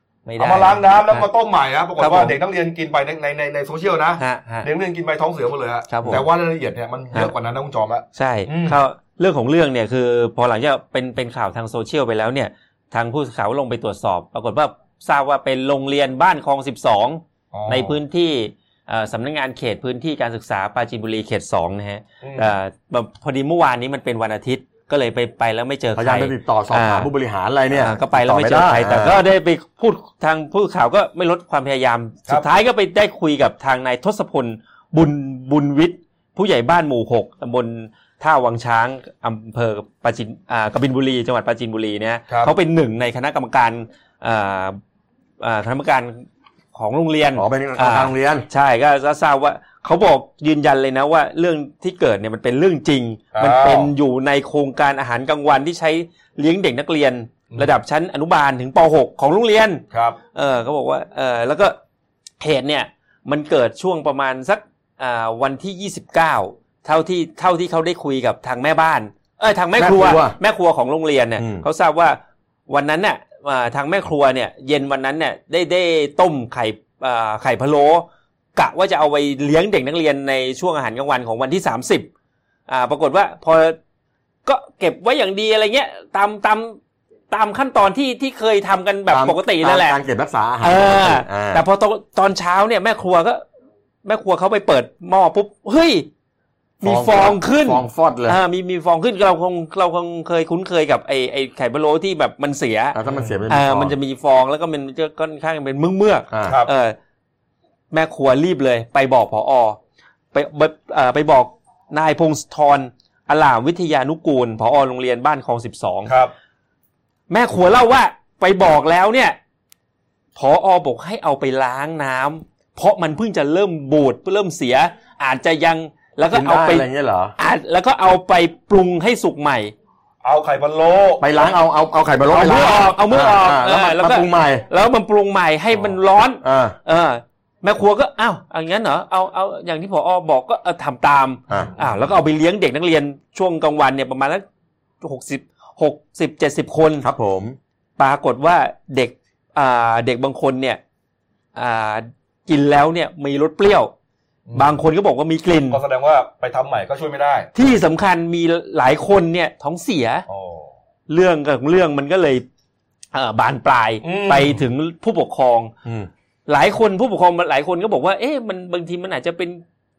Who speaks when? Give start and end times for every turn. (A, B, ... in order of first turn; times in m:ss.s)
0:00.2-0:01.3 A
0:00.4-0:08.8 B
0:02.0-0:02.3 A
0:04.2-0:04.7 A
0:05.9-0:06.2 A
0:08.1-0:27.1 A
0:17.5-0:18.0 B
0:22.2-0:22.5 B
0:25.9-0:29.2 C
0:27.7-0:44.8 A
0:42.3-0:42.5 B
0:45.4-1:01.8 A
0:47.3-0:48.5 C
0:53.3-0:53.9 B
0:59.9-1:00.2 B
1:02.4-1:22.1 A
1:09.8-1:10.4 C
1:11.4-1:11.6 C
1:22.7-1:23.8 A
1:24.4-1:26.8 A
1:27.3-1:30.0 A
1:29.1-1:31.6 C
1:30.6-1:33.4 A
1:34.0-1:36.1 A
1:36.8-1:43.0 A
1:36.8-1:38.4 C
1:42.9-1:44.0 C
1:43.5-1:47.0 A
1:46.3-1:46.6 C
1:46.4-1:46.7 B
1:47.9-1:49.8 A
1:50.3-1:56.1 A
1:56.0-1:56.3 B
1:57.3-1:59.4 A
2:00.4-2:06.8 A
2:06.3-2:07.3 C
2:07.4-2:09.7 A
2:10.2-2:11.4 B
2:11.2-2:14.6 C
2:12.3-2:24.4 A
2:16.4-2:16.8 C
2:21.5-2:21.8 B
2:25.0-2:27.0 A
2:27.0-2:27.6 C
2:28.0-2:30.8 A
2:31.5-2:33.9 A
2:34.5-2:34.8 B
2:34.5-2:35.8 A
2:35.7-2:37.5 B
2:37.5-2:40.2 A
2:40.3-2:40.7 B
2:41.1-2:42.4 A
2:43.1-2:45.7 A
2:44.0-2:44.6 B
2:46.5-2:49.6 A